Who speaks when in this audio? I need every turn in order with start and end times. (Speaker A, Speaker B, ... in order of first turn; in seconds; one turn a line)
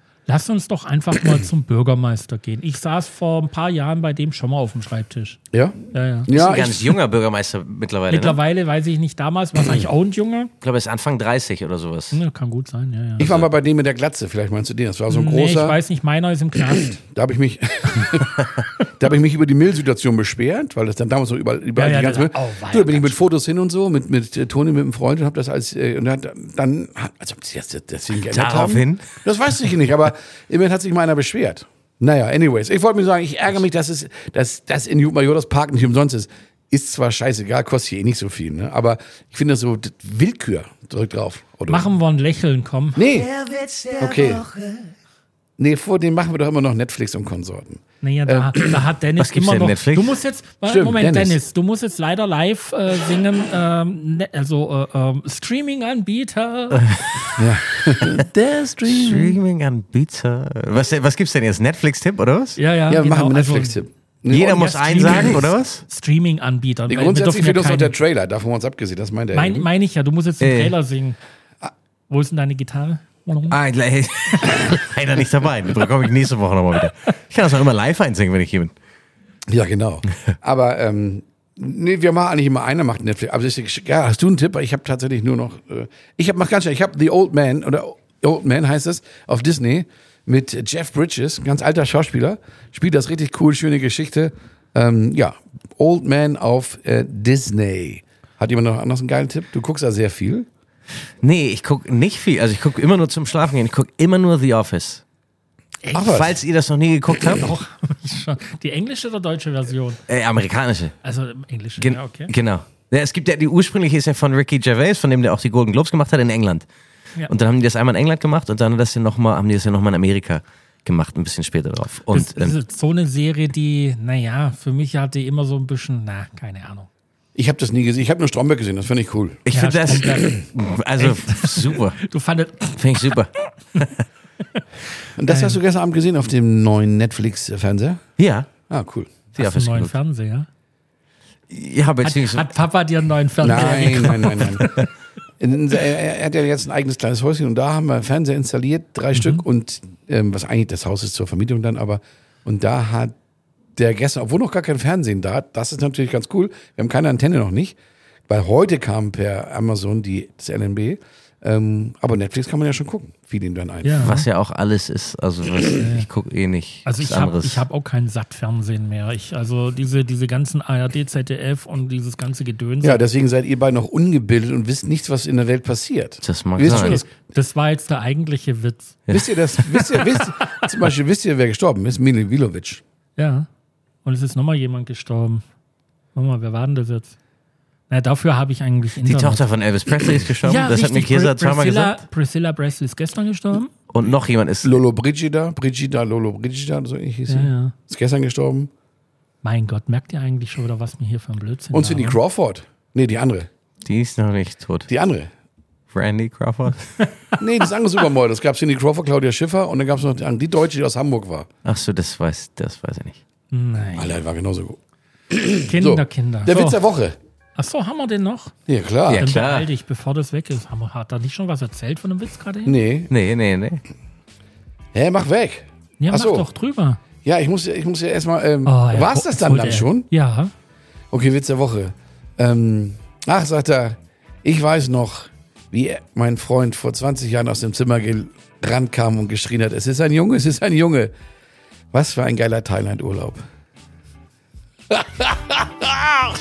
Speaker A: 0.3-5.4
Speaker B: 5.5-7.0
Speaker A: 5.9-6.3
Speaker C: 6.3-8.4
Speaker A: 8.1-10.5
Speaker C: 10.6-12.2
Speaker A: 12.1-13.3
Speaker B: 13.2-15.8
Speaker A: 15.1-17.0
Speaker B: 17.0-18.5
Speaker B: 19.0-41.9
Speaker A: 21.8-23.2
Speaker C: 28.3-29.2
Speaker A: 41.7-43.0
Speaker B: 43.0-43.4
Speaker B: 44.0-44.5
Speaker B: 45.6-48.8
Speaker A: 48.0-56.9
Speaker C: 49.2-50.2
Speaker B: 50.7-51.4
Speaker C: 56.7-58.3
Speaker B: 57.4-59.4
Speaker C: 58.8-62.6
Speaker A: 62.6-63.8
Speaker B: 62.9-64.7
Speaker C: 64.3-65.8
Speaker A: 64.3-68.0
Speaker B: 66.9-69.7
Speaker A: 69.3-71.2
Speaker C: 70.4-70.7
Speaker A: 72.1-73.6
Speaker C: 73.5-78.7
Speaker A: 74.3-74.6
Speaker B: 79.5-100.5
Speaker C: 101.2-105.0
Speaker A: 105.8-106.2
Speaker B: 105.9-106.3
Speaker C: 106.0-107.5
Speaker A: 107.3-110.0
Speaker C: 110.1-111.0
Speaker A: 111.0-112.3
Speaker C: 111.8-116.7
Speaker C: 117.3-122.5
Speaker A: 122.1-126.9
Speaker B: 127.3-129.4
Speaker C: 129.5-132.0
Speaker A: 129.5-130.4
Speaker A: 131.0-133.9
Speaker C: 132.8-133.3
Speaker B: 135.2-138.0
Speaker A: 135.3-135.6
Speaker C: 138.2-138.5
Speaker B: 138.7-139.2
Speaker C: 139.4-140.0
Speaker A: 139.4-140.5
Speaker C: 141.5-142.5
Speaker A: 142.0-144.9
Speaker B: 143.4-144.7
Speaker B: 145.4-153.2
Speaker A: 149.2-149.4
Speaker B: 153.8-157.8
Speaker B: 158.3-164.1
Speaker A: 163.8-164.3
Speaker C: 164.0-167.7
Speaker A: 165.8-166.1
Speaker A: 166.8-173.0
Speaker B: 172.8-177.1
Speaker C: 176.2-177.0
Speaker A: 176.6-179.0
Speaker C: 179.1-180.0
Speaker B: 179.1-182.8
Speaker A: 183.2-183.5
Speaker A: 184.1-185.4
Speaker A: 186.2-187.2
Speaker A: 187.9-189.4
Speaker C: 189.0-192.0
Speaker A: 190.4-193.7
Speaker C: 193.9-194.8
Speaker B: 194.6-198.7
Speaker A: 197.3-197.8
Speaker A: 199.4-202.2
Speaker B: 201.7-203.5
Speaker C: 203.8-204.9
Speaker B: 204.9-205.3
Speaker C: 205.9-207.0
Speaker B: 207.4-211.5
Speaker C: 211.7-213.2
Speaker A: 213.5-214.2
Speaker B: 214.0-214.8
Speaker B: 215.3-217.2
Speaker A: 215.6-216.8
Speaker A: 217.6-218.5
Speaker B: 218.7-219.3
Speaker C: 219.1-219.7
Speaker A: 219.1-222.8
Speaker B: 222.7-223.1
Speaker C: 223.1-223.8
Speaker B: 224.9-226.5
Speaker A: 226.0-227.0
Speaker B: 227.2-230.1
Speaker A: 228.7-230.5
Speaker B: 231.1-241.1
Speaker B: 241.9-243.4
Speaker B: 245.0-245.8